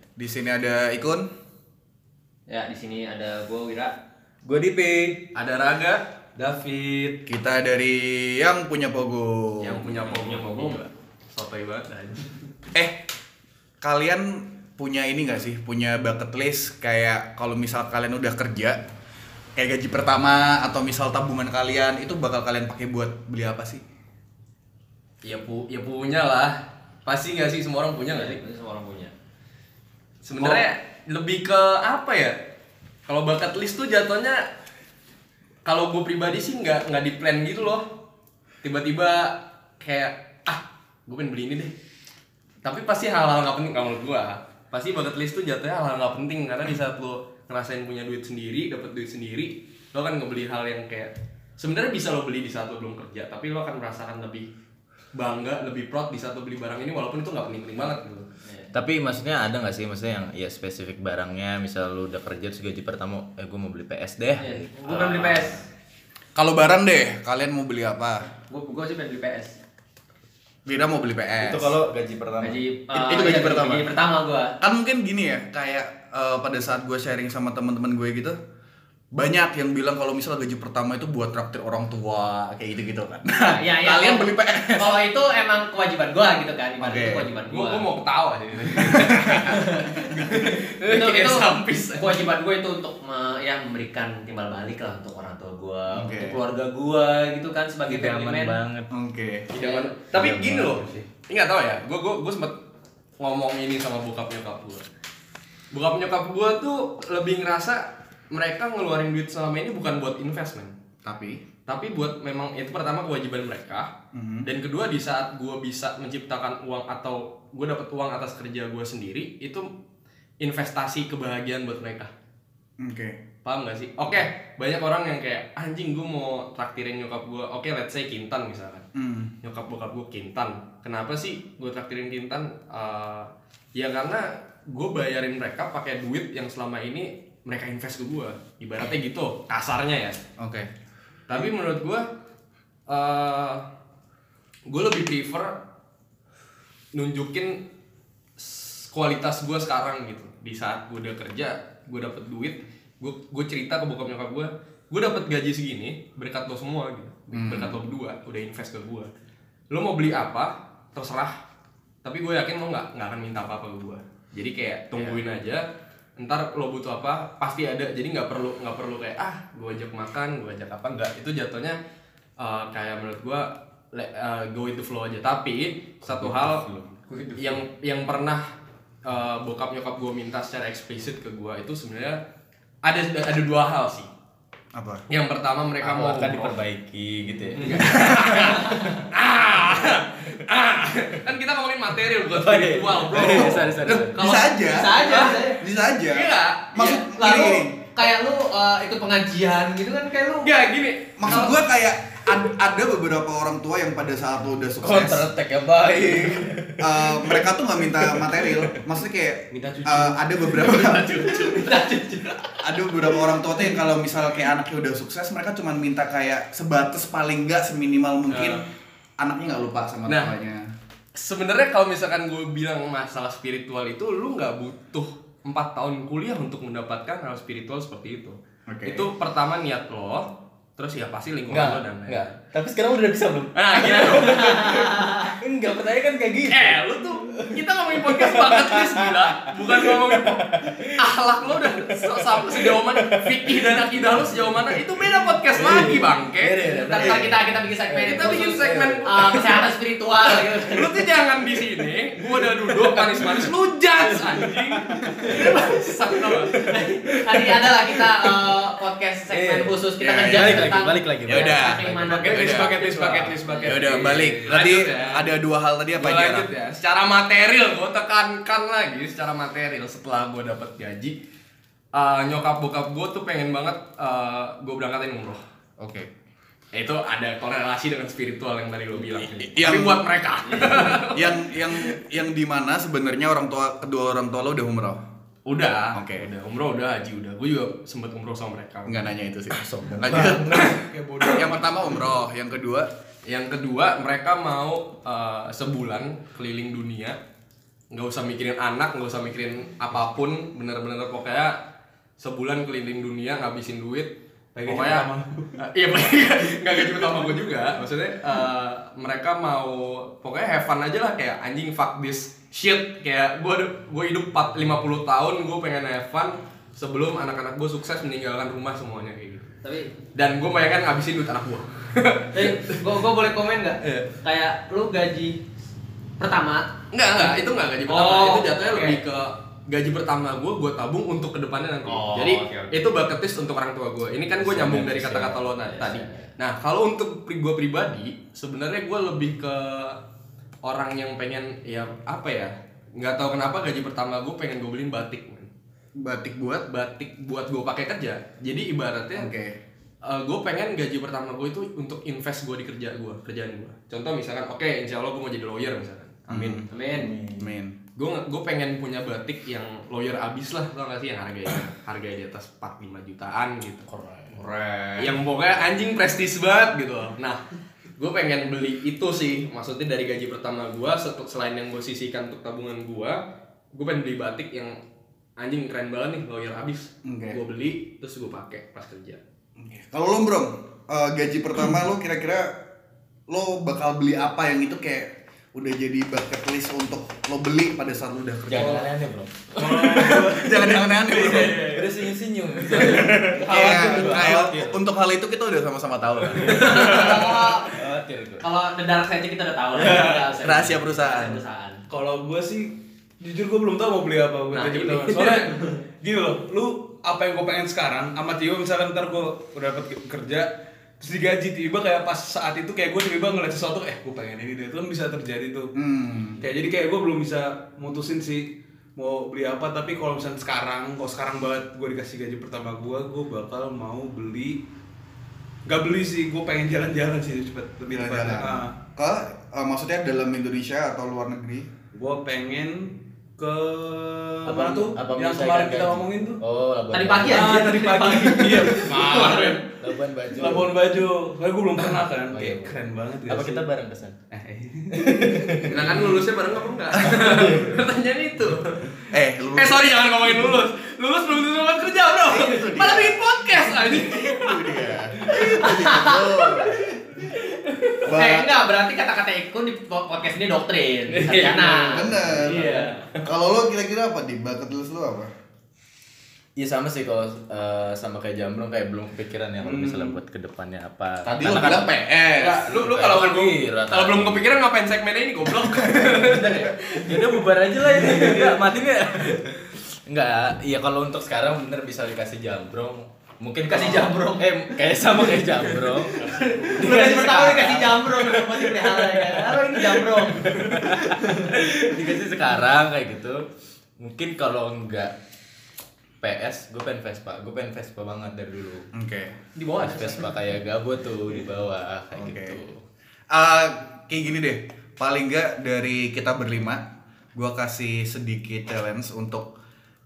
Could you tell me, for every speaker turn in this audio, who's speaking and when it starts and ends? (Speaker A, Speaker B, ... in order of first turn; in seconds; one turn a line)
Speaker A: 0.2-1.3
Speaker B: 2.5-4.0
Speaker C: 4.4-5.3
Speaker D: 5.3-6.1
Speaker C: 6.4-7.1
Speaker A: 7.2-10.1
Speaker D: 9.6-12.3
Speaker A: 12.7-13.0
Speaker A: 13.8-18.8
Speaker A: 19.6-23.8
Speaker D: 25.2-28.4
Speaker B: 28.1-29.1
Speaker D: 30.2-32.4
Speaker B: 30.4-30.6
Speaker D: 33.1-34.5
Speaker D: 35.6-37.9
Speaker D: 38.6-41.7
Speaker D: 42.6-54.5
Speaker D: 55.1-58.3
Speaker B: 58.5-58.7
Speaker C: 58.7-65.6
Speaker B: 64.4-65.6
Speaker A: 66.3-68.3
Speaker B: 68.5-69.6
Speaker A: 70.7-71.7
Speaker C: 71.4-72.6
Speaker B: 72.4-74.6
Speaker A: 72.9-73.9
Speaker A: 74.6-78.4
Speaker A: 79.1-85.0
Speaker B: 83.5-87.8
Speaker A: 86.8-87.3
Speaker D: 87.5-92.2
Speaker A: 88.8-89.6
Speaker B: 89.5-89.9
Speaker B: 90.8-98.6
Speaker A: 95.9-96.4
Speaker C: 97.9-98.9
Speaker A: 98.9-99.5
Speaker D: 99.5-102.6
Speaker B: 99.5-99.9
Speaker C: 100.1-101.1
Speaker D: 103.2-104.8
Speaker D: 105.7-110.7
Speaker A: 111.0-111.4
Speaker D: 111.7-113.9
Speaker A: 114.1-114.5
Speaker D: 114.4-119.7
Speaker D: 120.4-122.1
Speaker A: 122.8-123.2
Speaker D: 123.4-128.9
Speaker A: 128.9-129.3
Speaker D: 129.4-140.2
Speaker A: 140.4-140.7
Speaker D: 141.3-142.1
Speaker D: 142.9-143.7
Speaker D: 144.7-145.6
Speaker D: 146.9-147.6
Speaker D: 148.4-159.1
Speaker A: 157.3-157.8
Speaker D: 159.7-161.3
Speaker D: 162.0-165.7
Speaker D: 166.2-171.8
Speaker D: 172.4-176.7
Speaker C: 176.0-176.9
Speaker B: 177.1-177.4
Speaker D: 177.4-178.4
Speaker D: 179.0-182.2
Speaker D: 182.8-184.1
Speaker A: 184.7-185.1
Speaker D: 185.1-186.6
Speaker C: 185.8-189.1
Speaker D: 187.6-195.4
Speaker A: 188.0-188.5
Speaker C: 192.3-194.2
Speaker A: 193.1-197.7
Speaker B: 194.6-195.6
Speaker D: 196.1-197.1
Speaker B: 197.1-200.5
Speaker D: 200.4-201.6
Speaker A: 201.2-205.3
Speaker C: 204.8-208.8
Speaker A: 206.8-211.4
Speaker E: 209.6-210.2
Speaker D: 210.5-212.6
Speaker A: 212.6-218.7
Speaker D: 218.3-218.6
Speaker A: 219.2-220.7
Speaker D: 220.1-220.3
Speaker D: 221.1-232.3
Speaker A: 228.7-229.1
Speaker C: 231.5-241.1
Speaker D: 233.5-234.8
Speaker B: 233.7-235.4
Speaker D: 236.5-247.3
Speaker C: 241.9-243.9
Speaker C: 245.5-249.7
Speaker B: 246.8-251.0
Speaker D: 247.9-249.6
Speaker D: 250.4-256.6
Speaker C: 252.4-253.5
Speaker C: 254.1-258.3
Speaker B: 255.2-255.9
Speaker B: 256.5-263.8
Speaker C: 259.3-262.6
Speaker A: 260.0-260.7
Speaker E: 261.5-264.6
Speaker D: 262.4-265.3
Speaker A: 263.6-266.5
Speaker D: 265.9-271.2
Speaker D: 271.9-275.4
Speaker A: 275.8-276.1
Speaker D: 276.7-282.0
Speaker A: 279.4-280.0
Speaker B: 280.5-280.8
Speaker A: 280.8-285.0
Speaker D: 285.4-289.1
Speaker A: 285.9-286.3
Speaker A: 288.9-290.8
Speaker C: 289.5-290.8
Speaker E: 290.8-291.5
Speaker A: 291.3-292.9
Speaker D: 293.2-297.2
Speaker D: 297.9-301.6
Speaker D: 302.2-304.1
Speaker E: 304.5-305.5
Speaker D: 304.6-319.5
Speaker B: 319.6-319.9
Speaker D: 320.1-322.8
Speaker B: 322.3-325.4
Speaker D: 323.8-324.1
Speaker B: 326.2-329.0
Speaker D: 326.9-340.0
Speaker B: 331.9-332.8
Speaker C: 334.4-336.1
Speaker D: 340.6-345.5
Speaker A: 346.0-346.7
Speaker D: 346.7-349.3
Speaker A: 349.1-349.6
Speaker D: 350.0-356.6
Speaker A: 356.3-356.7
Speaker B: 356.7-357.1
Speaker C: 356.9-357.5
Speaker A: 357.4-357.8
Speaker D: 357.9-367.4
Speaker C: 363.9-364.4
Speaker D: 368.0-373.2
Speaker D: 373.7-374.8
Speaker D: 375.4-379.2
Speaker A: 377.0-377.4
Speaker A: 379.6-382.6
Speaker A: 383.3-388.9
Speaker C: 388.5-390.3
Speaker E: 389.5-391.9
Speaker A: 389.9-391.7
Speaker C: 391.1-394.8
Speaker E: 392.8-393.3
Speaker A: 393.3-397.4
Speaker B: 396.5-397.8
Speaker E: 396.6-397.1
Speaker C: 396.8-398.4
Speaker B: 398.4-401.8
Speaker E: 399.8-400.3
Speaker A: 400.4-401.4
Speaker E: 401.9-415.7
Speaker B: 404.5-405.8
Speaker A: 415.7-416.4
Speaker E: 416.4-424.6
Speaker E: 425.6-428.8
Speaker A: 427.9-431.7
Speaker E: 431.9-436.4
Speaker C: 434.4-437.6
Speaker B: 436.9-439.6
Speaker E: 437.2-439.8
Speaker D: 438.9-439.5
Speaker C: 439.8-440.8
Speaker E: 440.3-443.7
Speaker C: 442.3-444.2
Speaker E: 444.3-446.1
Speaker C: 444.9-445.9
Speaker D: 445.7-455.6
Speaker C: 447.2-447.6
Speaker A: 449.1-450.0
Speaker A: 452.2-453.2
Speaker A: 453.8-456.9
Speaker B: 455.2-456.6
Speaker D: 457.3-458.0
Speaker A: 458.0-458.5
Speaker B: 458.1-463.1
Speaker D: 461.1-463.2
Speaker A: 461.7-465.3
Speaker C: 466.6-472.0
Speaker E: 469.6-470.2
Speaker A: 471.2-472.7
Speaker D: 472.3-477.5
Speaker C: 472.6-474.4
Speaker C: 475.9-493.4
Speaker B: 477.9-478.6
Speaker B: 483.6-484.5
Speaker B: 486.2-491.4
Speaker C: 494.0-495.1
Speaker C: 496.2-498.9
Speaker A: 498.9-499.4
Speaker B: 499.6-500.3
Speaker C: 499.8-502.8
Speaker A: 502.1-502.6
Speaker A: 503.3-509.5